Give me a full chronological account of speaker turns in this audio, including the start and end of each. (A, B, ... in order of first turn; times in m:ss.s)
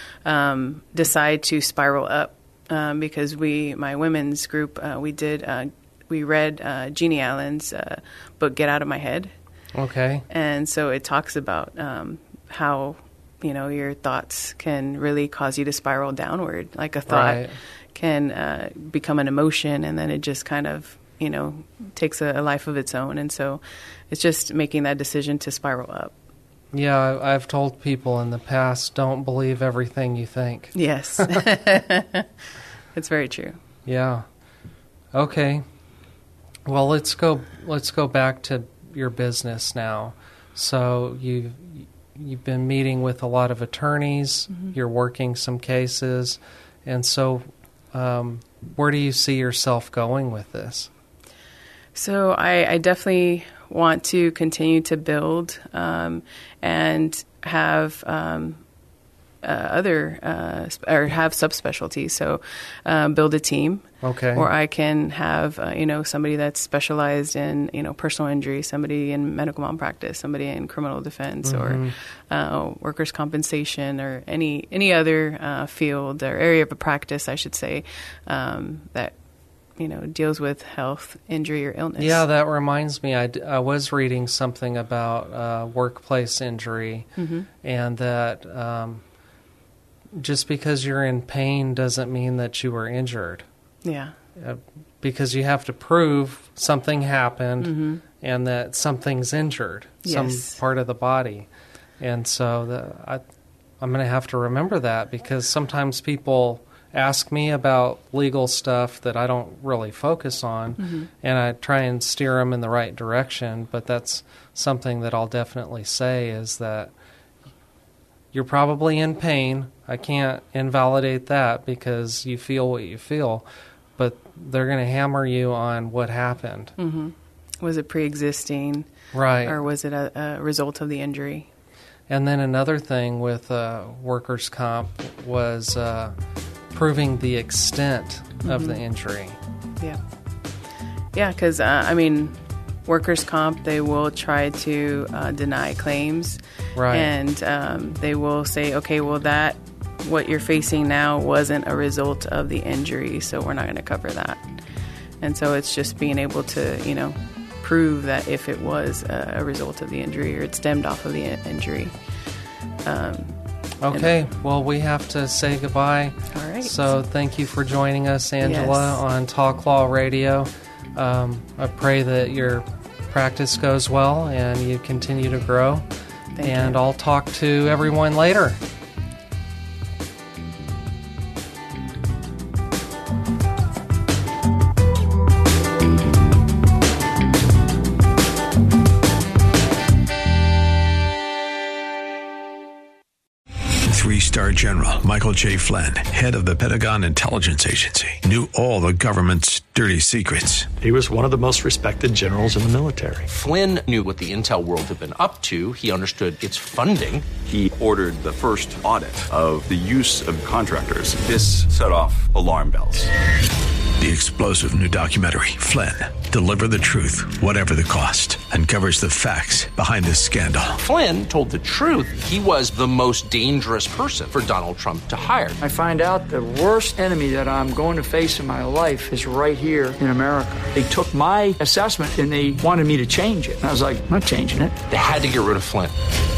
0:00.2-0:09.3 A
0:09.7-0:10.3 B
0:10.3-0:17.4 A
0:17.1-0:17.5 B
0:18.0-0:26.1 A
0:26.7-0:31.4 B
0:30.8-0:32.3 A
0:33.0-0:33.6 A
0:33.9-0:34.3 B
0:35.1-0:35.6 B
0:36.7-0:50.9 B
0:52.0-0:58.6 A
0:59.4-1:19.2 A
1:04.0-1:04.5 B
1:11.4-1:12.0 B
1:19.8-1:22.2 A
1:22.0-1:27.1 B
1:27.2-1:27.5 A
1:27.6-1:29.0 B
1:30.2-1:33.5 B
1:33.8-1:34.1 A
1:34.4-1:41.5 B
1:37.6-1:38.0 A
1:40.0-1:40.6 A
1:42.0-1:43.2 B
1:43.8-1:56.9 B
1:50.8-1:51.1 A
1:58.3-2:03.5 B
2:04.0-2:06.8 B
2:06.8-2:08.9 A
2:09.1-2:09.6 B
2:09.4-2:11.5 A
2:12.1-2:16.2 B
2:16.7-2:19.4 B
2:18.4-2:18.8 A
2:21.1-2:26.4 A
2:26.8-2:27.2 B
2:26.9-2:34.4 A
2:35.2-2:41.9 A
2:42.8-2:43.4 A
2:43.8-2:55.9 B
2:46.3-2:47.0 A
2:48.4-2:49.0 A
2:56.4-2:56.8 A
2:56.4-2:58.6 B
3:13.9-3:20.7 C
3:20.8-3:23.3 D
3:23.3-3:27.3 E
3:27.5-3:33.1 F
3:34.0-3:40.8 C
3:40.8-3:45.6 E
3:45.6-3:54.8 G
3:54.9-3:55.9 E